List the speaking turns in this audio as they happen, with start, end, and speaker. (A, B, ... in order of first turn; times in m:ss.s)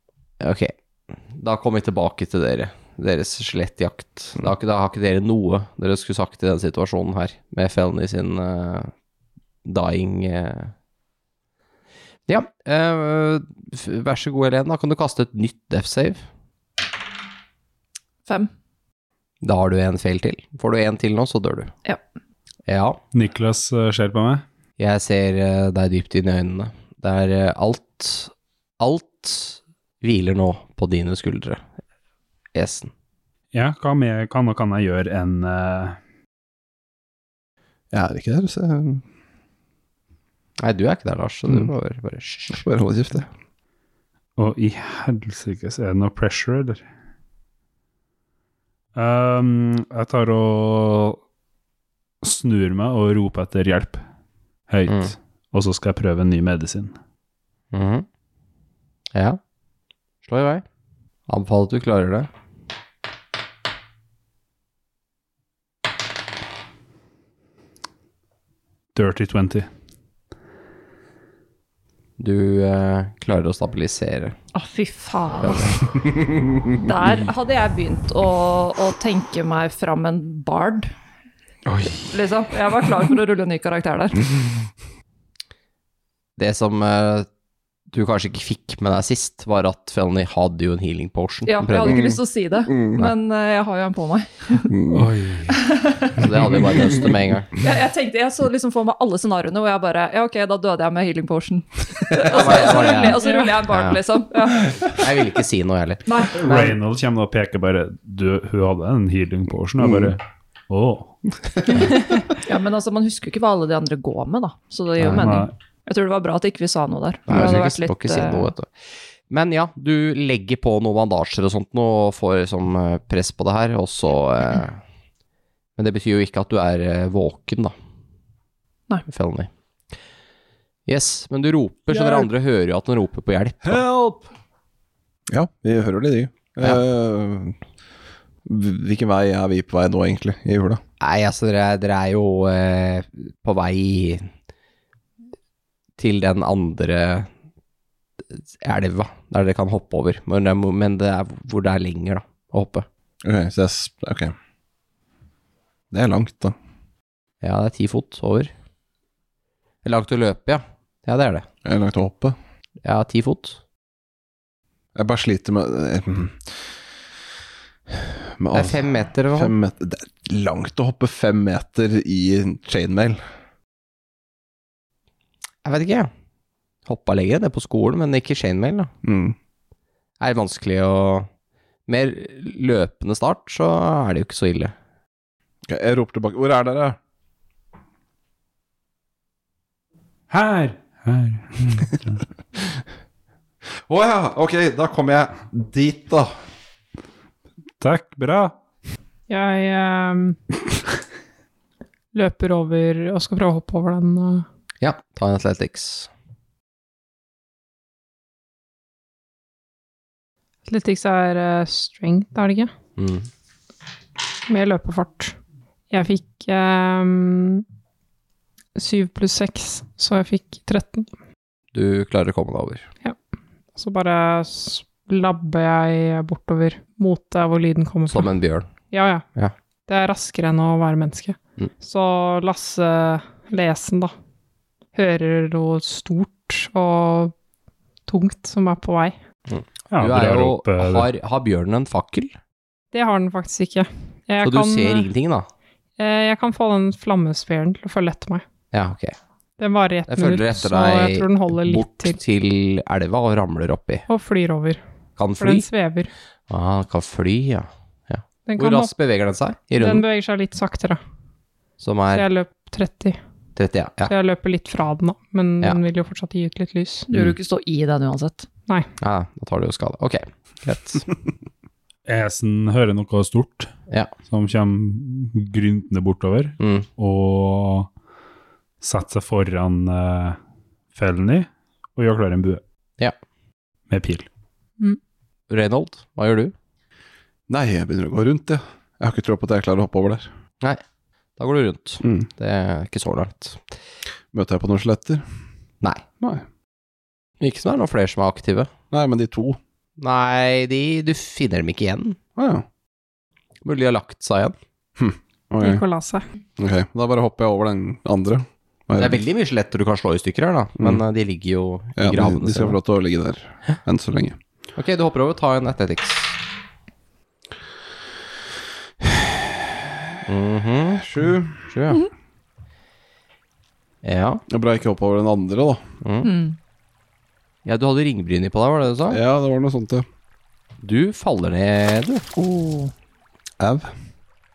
0:00.4-0:00.7 A
0:01.3-0:08.9 A
0:09.6-0:10.7 A
0:12.3-0:16.2 A
0:19.4-0:21.7 A
0:22.7-0:23.0 A
0:23.1-0:24.4 B
0:24.8-0:31.6 A
0:32.5-0:32.9 A
0:33.5-0:36.0 B
0:37.9-0:39.0 C
0:40.6-0:42.6 A
0:42.5-0:43.3 C
0:44.4-0:46.8 B
0:49.0-0:51.2 B
0:52.2-0:54.0 B
0:54.7-0:57.0 B
0:54.9-0:55.1 A
0:57.7-0:58.1 A
1:00.2-1:00.6 A
1:01.3-1:02.3 A
1:09.0-1:09.7 B
1:12.2-1:14.4 A
1:14.5-1:16.0 D
1:15.4-1:15.8 A
1:16.1-1:16.6 C
1:16.7-1:20.9 D
1:22.1-1:24.4 D
1:26.4-1:27.3 A
1:27.9-1:32.1 A
1:31.4-1:34.7 D
1:31.8-1:33.0 C
1:34.7-1:35.1 C
1:34.9-1:35.6 B
1:35.5-1:36.2 D
1:36.2-1:37.5 A
1:37.6-1:45.0 D
1:42.2-1:44.0 A
1:43.2-1:43.5 E
1:44.9-1:46.1 A
1:46.1-1:46.8 D
1:46.4-1:51.3 B
1:49.8-1:50.1 C
1:52.4-1:58.5 D
1:55.0-1:55.4 A
1:55.0-1:55.5 B
1:57.3-1:58.7 A
1:59.3-2:04.8 A
2:05.8-2:07.7 A
2:09.1-2:09.5 A
2:10.9-2:13.8 A
2:13.7-2:14.2 B
2:15.3-2:17.6 C
2:18.4-2:20.8 C
2:21.0-2:24.3 A
2:26.0-2:27.3 A
2:28.3-2:32.9 A
2:33.2-2:34.4 C
2:35.9-2:36.6 C
2:37.4-2:38.5 A
2:39.8-2:41.5 A
2:41.6-2:42.4 C
2:42.8-2:43.6 A
2:45.0-2:46.6 C
2:48.0-2:53.2 C
2:48.5-2:49.6 A
2:55.6-2:56.1 A
2:56.9-2:58.9 A
2:59.0-2:59.4 C
3:00.2-3:01.3 A
3:01.9-3:04.7 A
3:05.7-3:07.0 C
3:10.3-3:12.2 B
3:13.8-3:16.3 C
3:17.8-3:18.6 B
3:19.3-3:20.4 E
3:22.1-3:24.5 E
3:24.8-3:26.1 A
3:30.7-3:32.7 E
3:33.0-3:33.3 A
3:34.5-3:35.4 E
3:35.9-3:37.6 E
3:38.8-3:41.1 E
3:41.7-3:42.9 A
3:43.8-3:49.2 E
3:48.1-3:48.7 A
3:49.9-3:54.1 E
3:54.9-3:57.3 E
3:58.1-3:59.1 E
3:59.5-4:02.4 A
3:59.9-4:01.1 B
4:02.9-4:05.1 E
4:04.4-4:05.5 A
4:06.0-4:08.4 E
4:08.7-4:09.2 A
4:09.6-4:12.2 E
4:10.1-4:14.0 A
4:14.1-4:14.8 E
4:15.2-4:15.7 A
4:15.4-4:16.1 E
4:16.5-4:20.1 A
4:18.5-4:18.9 E
4:19.8-4:21.0 E
4:21.8-4:22.3 A
4:22.1-4:23.2 E
4:23.6-4:24.1 A
4:24.1-4:27.1 E
4:27.1-4:28.5 D
4:29.0-4:31.1 A
4:32.1-4:33.7 B
4:34.2-4:37.9 B
4:36.6-4:36.9 A
4:38.8-4:40.4 B
4:40.9-4:42.6 B
4:43.9-4:44.3 B
4:45.5-4:46.5 A
4:47.5-4:50.3 C
4:51.4-4:53.6 A
4:52.0-4:52.3 C
4:54.3-4:55.2 C
4:57.4-4:58.7 A
4:58.9-4:59.6 C
5:00.0-5:02.2 A
5:02.4-5:02.6 C
5:03.6-5:04.6 A
5:05.0-5:05.8 C
5:05.6-5:06.2 E
5:06.6-5:09.2 C
5:09.0-5:12.8 A
5:12.0-5:14.4 C
5:14.8-5:16.4 A
5:20.2-5:21.1 A
5:21.0-5:21.7 C
5:21.6-5:22.1 A
5:24.0-5:24.4 A
5:24.5-5:25.8 C
5:26.0-5:26.3 A
5:26.2-5:26.6 D
5:27.6-5:29.2 A
5:29.1-5:30.1 C
5:30.8-5:32.2 A
5:32.4-5:32.9 D
5:33.6-5:33.9 C